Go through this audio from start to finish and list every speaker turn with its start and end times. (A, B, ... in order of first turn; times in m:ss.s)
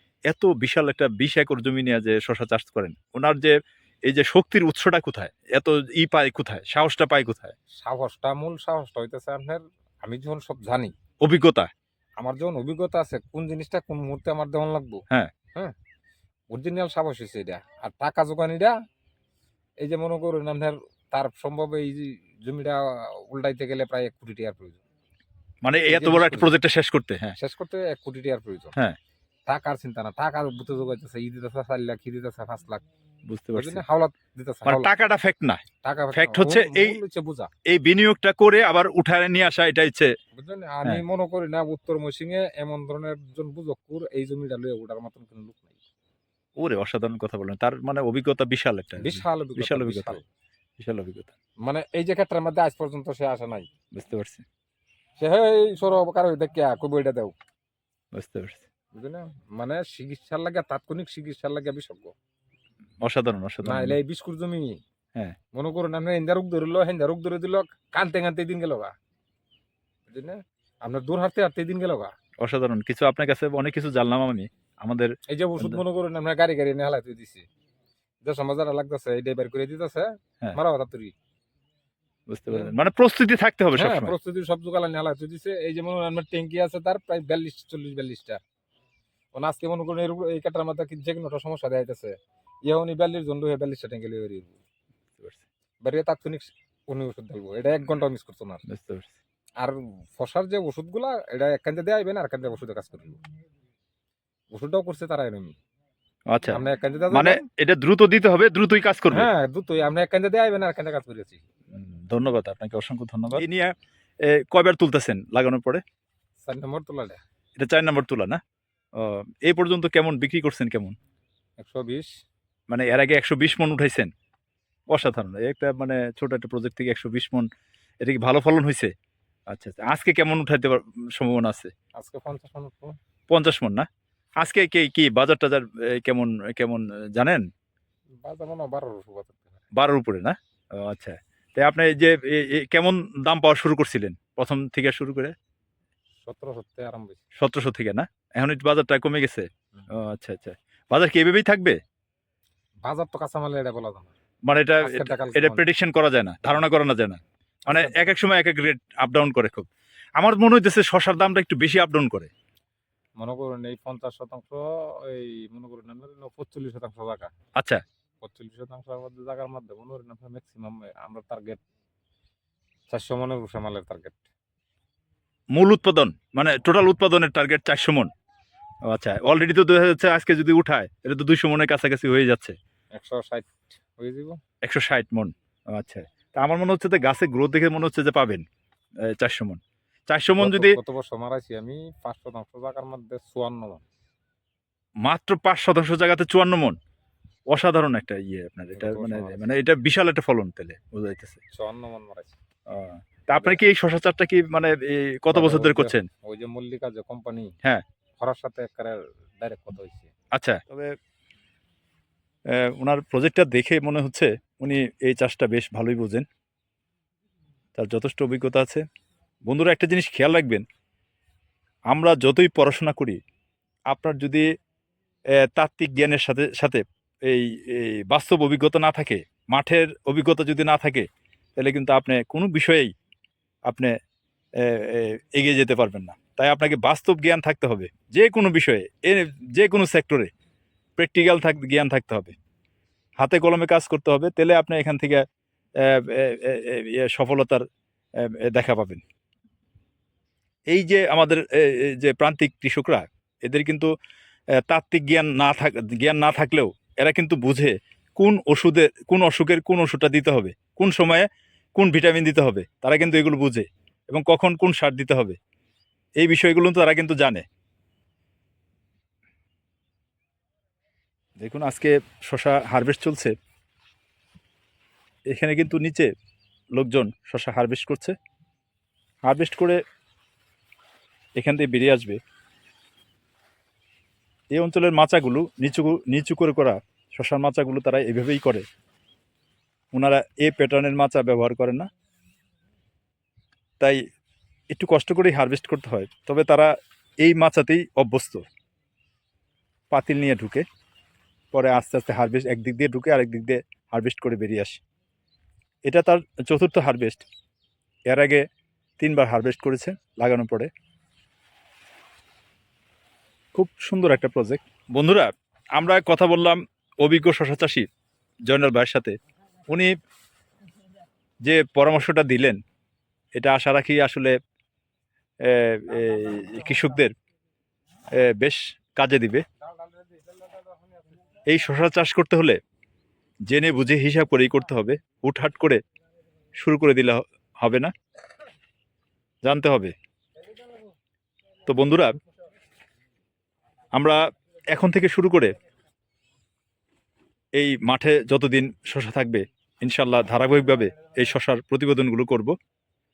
0:00.3-0:03.5 A
0:04.1-0:07.6 A
0:07.8-0:10.9 B
0:11.2-0:11.7 A
0:12.2-0:15.0 B
0:16.5-0:18.7 B
0:19.8-0:24.8 B
0:25.6-0:27.4 A
0:25.8-0:26.5 B
0:27.4-0:28.7 B
0:29.5-0:32.8 B
0:33.3-0:33.8 A
0:33.5-0:34.9 B
0:34.6-0:35.6 A
0:35.8-0:37.5 B
0:36.1-0:37.0 A
0:37.7-0:40.1 A
0:40.3-0:45.8 B
0:46.6-0:50.2 A
0:49.0-0:50.2 B
0:50.8-0:51.3 A
0:51.6-0:53.7 B
0:53.9-0:54.4 A
0:55.2-0:57.3 B
0:58.1-0:58.6 A
0:59.0-1:02.1 B
1:03.0-1:04.0 A
1:03.6-1:04.8 B
1:05.5-1:08.9 B
1:10.1-1:12.1 B
1:12.4-1:15.8 A
1:15.3-1:17.4 B
1:18.2-1:21.1 B
1:22.3-1:24.1 A
1:23.7-1:28.4 B
1:29.3-1:32.1 B
1:32.6-1:34.6 B
1:35.2-1:35.4 A
1:35.8-1:38.6 B
1:38.7-1:39.2 A
1:39.6-1:43.2 B
1:44.5-1:45.6 B
1:46.3-1:49.3 A
1:46.5-1:47.4 B
1:49.1-1:51.4 B
1:51.7-1:55.8 A
1:56.5-1:57.2 B
1:57.6-1:58.4 A
1:59.0-2:00.9 A
2:01.6-2:02.1 B
2:02.7-2:04.1 A
2:04.9-2:07.5 A
2:08.0-2:08.9 A
2:09.5-2:11.7 A
2:12.0-2:12.9 B
2:13.3-2:13.9 A
2:14.4-2:17.4 A
2:18.2-2:19.6 B
2:19.7-2:25.3 A
2:26.2-2:27.2 B
2:27.4-2:31.8 A
2:32.8-2:34.1 B
2:34.5-2:42.3 A
2:34.8-2:35.7 B
2:37.6-2:38.2 B
2:43.2-2:47.3 B
2:48.2-2:51.6 B
2:52.9-2:54.2 B
2:55.5-2:58.1 A
2:58.9-3:02.6 A
3:03.0-3:04.4 B
3:04.6-3:08.4 A
3:09.0-3:10.8 A
3:10.4-3:13.8 B
3:15.0-3:16.8 A
3:17.5-3:21.4 A
3:18.8-3:19.5 B
3:21.5-3:22.4 B
3:22.7-3:26.0 A
3:25.3-3:27.5 B
3:28.2-3:30.1 B
3:30.3-3:31.0 A
3:32.5-3:36.2 A
3:37.8-3:38.8 A
3:39.4-3:40.6 A
3:41.9-3:43.2 A
3:43.9-3:44.4 A
3:45.4-3:52.9 A
3:53.7-3:53.9 A
3:54.6-4:00.3 A
4:01.0-4:02.3 A
4:03.2-4:05.2 A
4:05.8-4:07.6 A
4:08.2-4:09.0 A
4:10.7-4:13.9 A
4:14.7-4:25.4 A
4:26.2-4:27.4 A
4:31.4-4:33.3 A
4:35.3-4:36.1 A
4:36.7-4:38.1 A
4:39.2-4:39.8 A
4:41.4-4:42.2 A
4:44.5-4:48.6 A
4:49.9-4:51.9 A
4:54.7-4:58.4 A
4:59.9-5:00.6 A
5:01.5-5:04.8 A
5:05.9-5:07.2 A
5:08.1-5:08.4 A
5:09.0-5:10.7 A
5:13.5-5:17.9 A
5:18.5-5:19.1 A
5:21.4-5:22.6 A
5:23.4-5:24.3 A
5:25.4-5:27.1 A
5:26.2-5:26.6 B
5:28.1-5:29.4 A
5:29.6-5:31.2 B
5:31.5-5:32.6 A
5:33.5-5:35.8 A
5:36.6-5:37.9 A
5:39.4-5:39.9 A
5:41.6-5:42.1 A
5:43.9-5:44.2 A
5:44.7-5:45.5 A
5:47.6-5:52.5 A